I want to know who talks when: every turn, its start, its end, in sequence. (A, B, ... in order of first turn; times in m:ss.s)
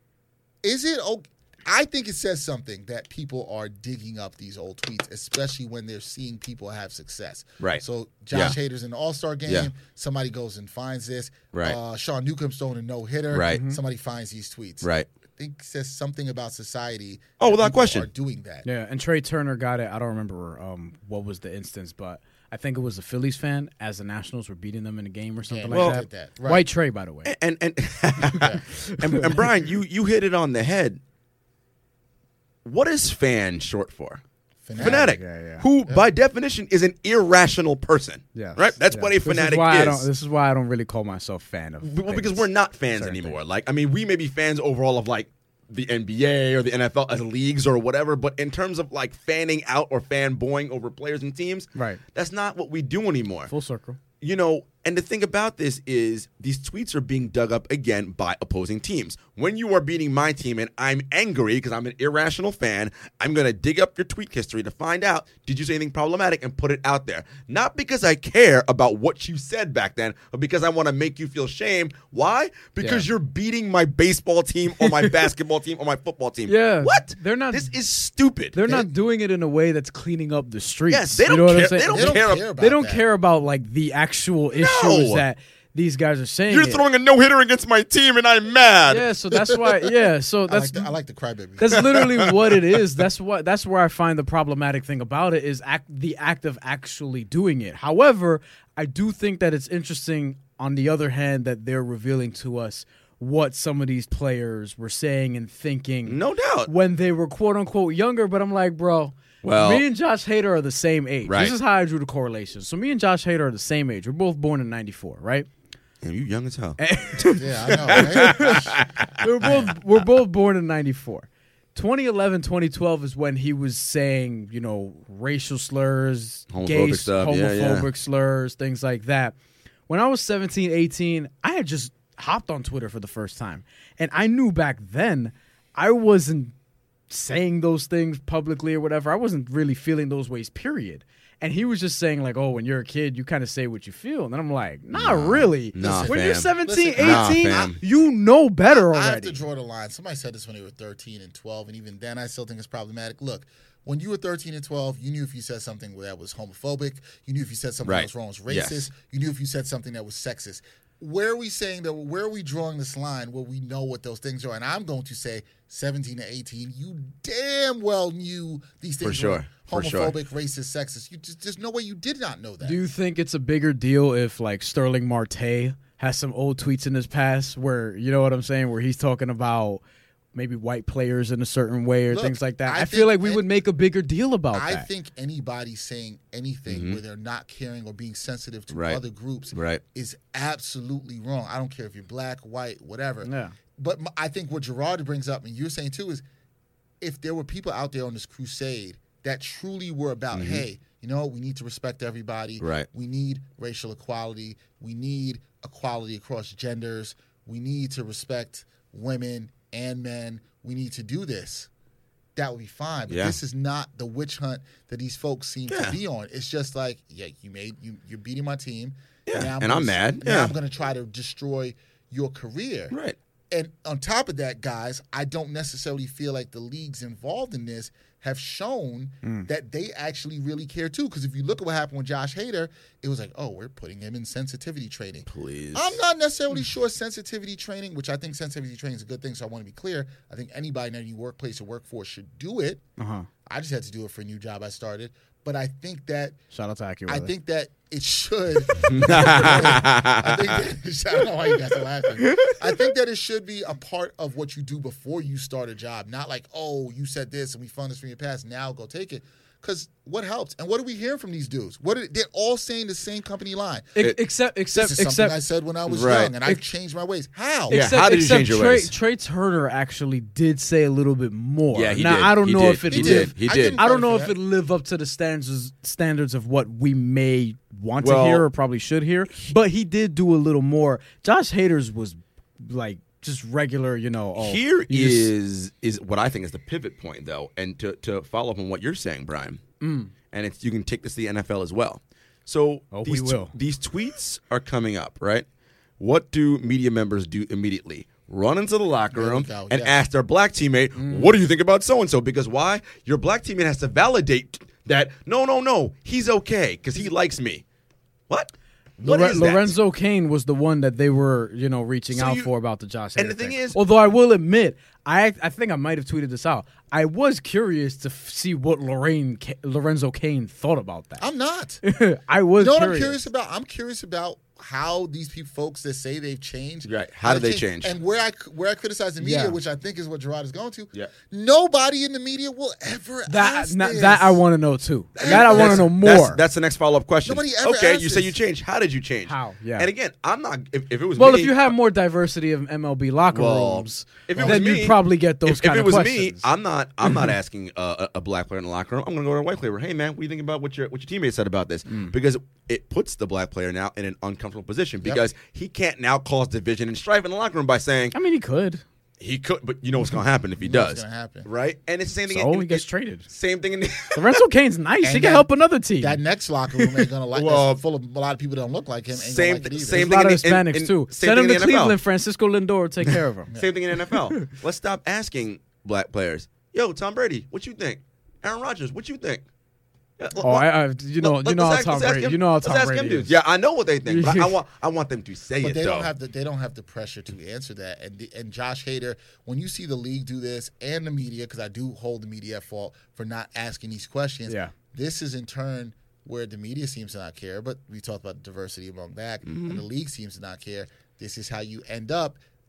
0:00.6-0:18.7 A
0:07.6-0:08.6 B
0:11.5-0:11.8 B
0:13.3-0:13.6 B
0:13.5-0:13.8 C
0:14.8-0:15.1 B
0:17.4-0:18.1 B
0:18.6-0:27.3 C
0:25.5-0:26.6 A
0:25.7-0:26.0 B
0:27.3-0:31.0 B
0:28.3-0:29.5 C
0:32.6-0:34.2 B
0:34.7-0:35.2 A
0:34.8-0:35.6 C
0:34.8-0:40.1 B
0:38.4-0:43.4 C
0:41.8-0:53.5 B
0:51.8-0:52.0 C
0:53.5-0:54.0 C
0:54.2-1:18.7 B
1:12.8-1:13.1 C
1:14.8-1:15.2 C
1:16.5-1:17.7 C
1:18.5-1:26.8 C
1:20.9-1:22.4 B
1:21.9-1:23.0 A
1:24.6-1:25.2 B
1:26.5-1:29.1 B
1:28.9-1:30.9 C
1:30.5-1:32.0 A
1:31.6-1:55.5 C
1:32.0-1:32.3 B
1:46.1-1:46.7 B
1:49.4-1:49.8 B
1:51.3-1:51.5 B
1:56.0-1:59.5 B
1:56.8-2:09.3 C
1:57.4-1:58.8 A
2:06.5-2:07.9 B
2:09.9-2:16.5 C
2:17.1-2:29.4 C
2:24.9-2:27.8 B
2:25.8-2:27.8 A
2:28.7-2:52.8 A
2:37.8-2:38.9 B
2:49.0-2:50.2 B
2:52.6-2:59.8 C
3:00.3-3:04.9 C
3:02.1-3:03.6 A
3:04.5-3:16.2 A
3:06.7-3:07.0 B
3:08.7-3:09.0 B
3:09.5-3:09.8 B
3:13.2-3:13.6 C
3:17.0-3:31.7 A
3:20.3-3:20.6 B
3:22.6-3:22.9 B
3:32.4-3:42.9 A
3:33.1-3:33.4 B
3:35.7-3:36.0 B
3:39.3-3:40.5 B
3:43.5-4:02.8 A
3:55.3-3:56.0 B
4:03.0-4:03.3 C
4:03.5-4:06.4 A
4:06.5-4:07.3 C
4:07.1-4:24.0 A
4:08.8-4:10.6 B
4:12.3-4:12.6 C
4:24.0-4:25.4 C
4:24.7-4:27.8 A
4:25.9-4:26.3 B
4:27.7-4:28.9 B
4:27.7-4:45.3 C
4:31.7-4:33.8 B
4:32.8-4:34.4 A
4:38.0-4:38.5 B
4:44.4-4:49.6 B
4:49.8-4:50.1 C
4:50.3-4:55.4 B
4:52.9-4:53.5 C
4:56.0-5:07.6 B
4:59.1-5:00.0 A
5:01.0-5:01.4 C
5:08.3-5:09.8 B
5:09.0-5:21.3 C
5:12.1-5:12.5 B
5:13.2-5:13.8 B
5:21.2-5:21.8 A
5:21.8-5:23.2 C
5:22.6-5:34.4 A
5:26.8-5:27.9 B
5:29.2-5:29.6 C
5:33.3-5:36.4 C
5:35.2-5:35.9 A
5:35.2-5:41.7 B
5:37.2-5:38.4 A
5:39.3-5:39.9 C
5:41.2-5:46.5 C
5:43.3-5:58.2 B
5:44.3-5:44.7 A
5:51.9-5:52.1 C
5:58.1-5:58.8 C
5:59.2-6:04.4 B
6:00.6-6:01.5 A
6:02.3-6:03.3 C
6:04.1-6:06.2 C
6:05.0-6:05.5 A
6:06.0-6:10.1 A
6:07.3-6:07.8 B
6:09.2-6:12.0 B
6:09.9-6:13.5 C
6:13.5-6:13.8 A
6:13.6-6:19.4 B
6:20.2-6:26.1 B
6:20.4-6:23.3 C
6:24.1-6:24.6 C
6:25.6-6:42.4 A
6:34.5-6:34.7 C
6:39.5-6:39.8 B